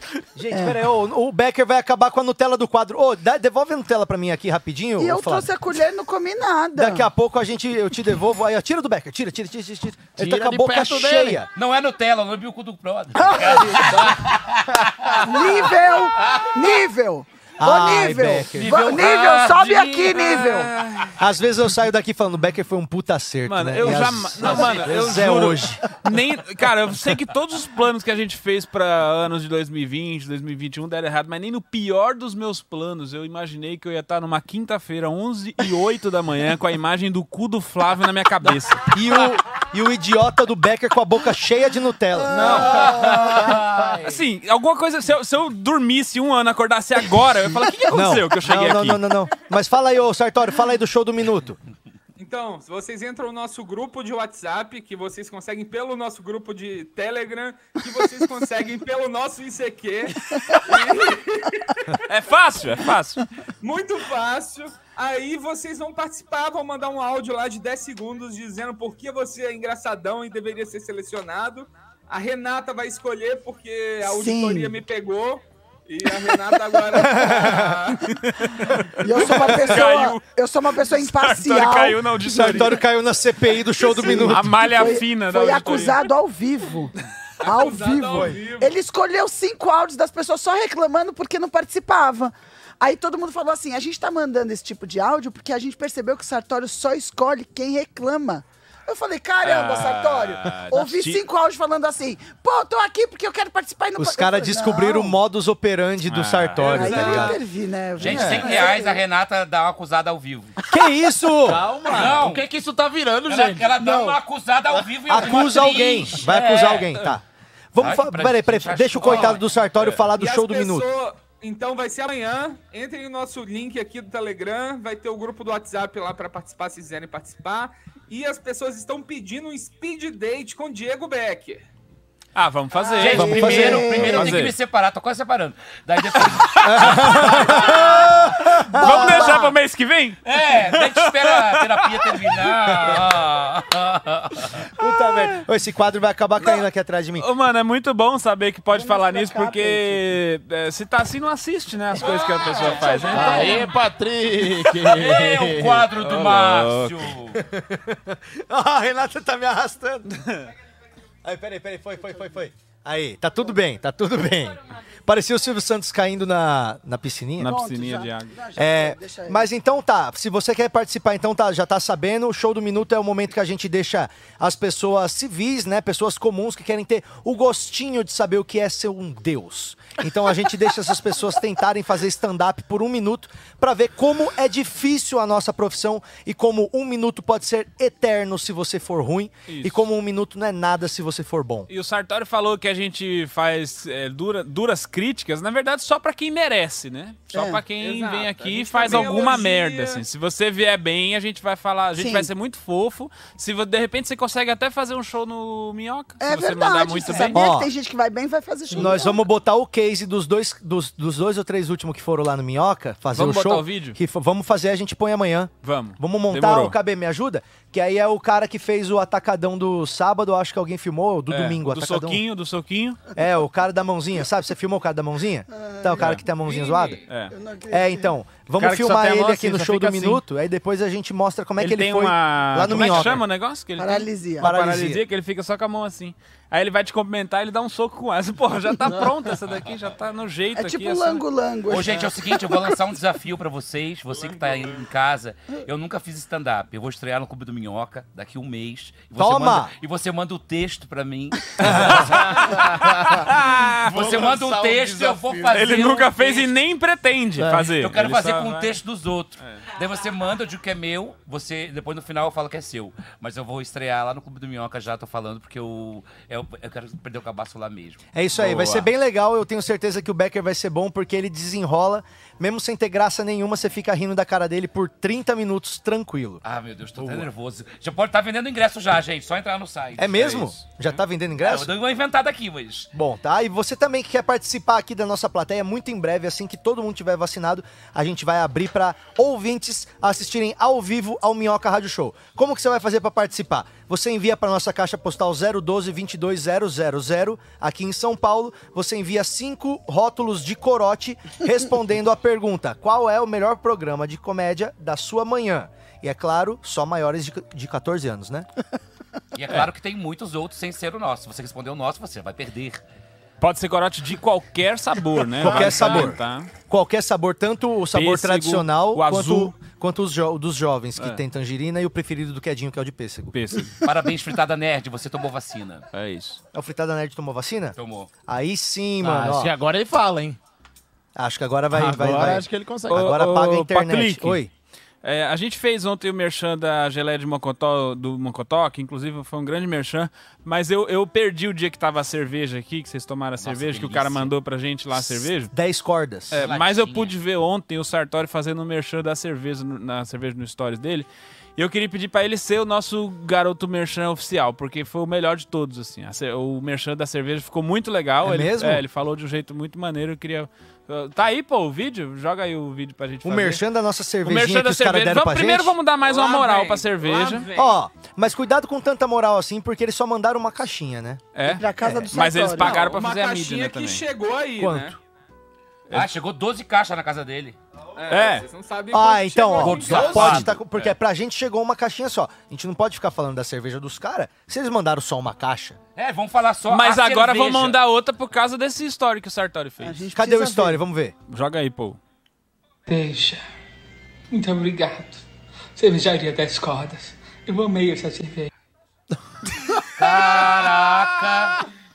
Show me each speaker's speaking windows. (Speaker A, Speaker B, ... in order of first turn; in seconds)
Speaker A: 0.3-5.5, 6.8-11.5, 17.6-19.0, 21.2-25.8, 38.9-42.8, 47.9-51.6, 76.9-77.8, 82.3-84.7, 104.0-107.4, 110.7-111.7, 115.1-120.9, 133.2-134.1, 136.6-139.4, 144.8-147.3, 157.3-160.1, 161.2-167.5, 168.6-191.7, 207.3-207.7, 208.7-222.2, 223.2-227.0, 227.7-233.2, 234.4-235.0, 249.2-249.7, 251.6-252.1, 257.4-257.7, 268.1-276.4, 277.0-277.3, 280.0-281.7, 282.9-308.5, 315.4-323.4, 326.5-327.8, 328.3-329.5, 331.2-334.5, 344.9-346.4, 358.2-358.8, 363.2-365.8, 367.6-371.2, 371.8-372.1, 374.6-375.0, 378.9-385.8, 390.1-391.1
Speaker B: 0.5-0.8, 5.0-7.1, 13.2-13.8, 15.2-20.7, 74.0-74.8, 79.0-82.7, 83.8-105.2, 106.7-109.0, 113.8-114.1, 132.8-134.4, 138.8-139.6, 148.7-150.2, 152.5-153.7, 167.4-169.5, 197.3-197.6, 202.0-202.3, 206.2-209.2, 225.5-226.1, 227.3-228.1, 233.8-234.5, 240.6-242.2, 371.4-372.9, 389.8-390.8
Speaker C: 10.2-11.5, 42.3-44.2, 111.4-114.0, 153.0-155.9, 252.3-253.3, 253.8-255.6, 329.0-330.4, 331.7-333.1
Speaker D: 11.5-15.7, 18.5-20.6, 108.0-110.6, 111.8-112.5, 113.3-117.0, 117.8-119.5, 132.9-138.1, 140.2-144.7, 154.9-157.4, 241.7-252.6, 253.9-256.5, 257.7-268.0, 276.4-282.9, 309.4-312.8, 315.4-316.1, 323.8-325.9, 327.8-328.1, 343.4-344.3, 346.4-347.1, 375.9-377.6, 379.6-380.6, 385.9-387.8, 400.0-401.6
Speaker E: 20.4-21.2, 23.5-38.9, 42.5-49.0, 62.1-63.2, 78.1-82.8, 84.1-86.1, 99.4-101.2, 106.1-107.0, 108.0-108.6, 132.3-134.6, 136.1-143.0, 147.2-153.7, 156.0-157.1, 160.1-160.5, 167.4-168.3, 189.5-189.8, 191.7-207.4, 213.1-214.0, 215.6-216.8, 221.3-223.0, 226.0-226.2, 227.1-227.3, 228.6-230.2, 231.6-241.2, 251.6-254.0, 255.5-258.8, 259.4-259.6, 268.4-268.9, 313.4-316.5, 317.9-319.6, 321.0-321.2, 323.3-323.8, 325.9-326.4, 332.9-334.4, 335.0-345.5, 346.3-363.6, 364.2-367.5, 371.4-374.1, 378.1-378.5, 386.7-390.1, 391.3-392.0
Speaker F: 52.2-62.0, 63.6-78.1, 87.4-88.8, 106.7-107.4, 119.0-119.3, 120.1-131.6, 197.8-200.0, 226.4-227.1, 366.0-367.8, 372.6-375.0, 378.0-380.3
Speaker G: 392.9-393.4, 394.3-395.2, 395.8-398.5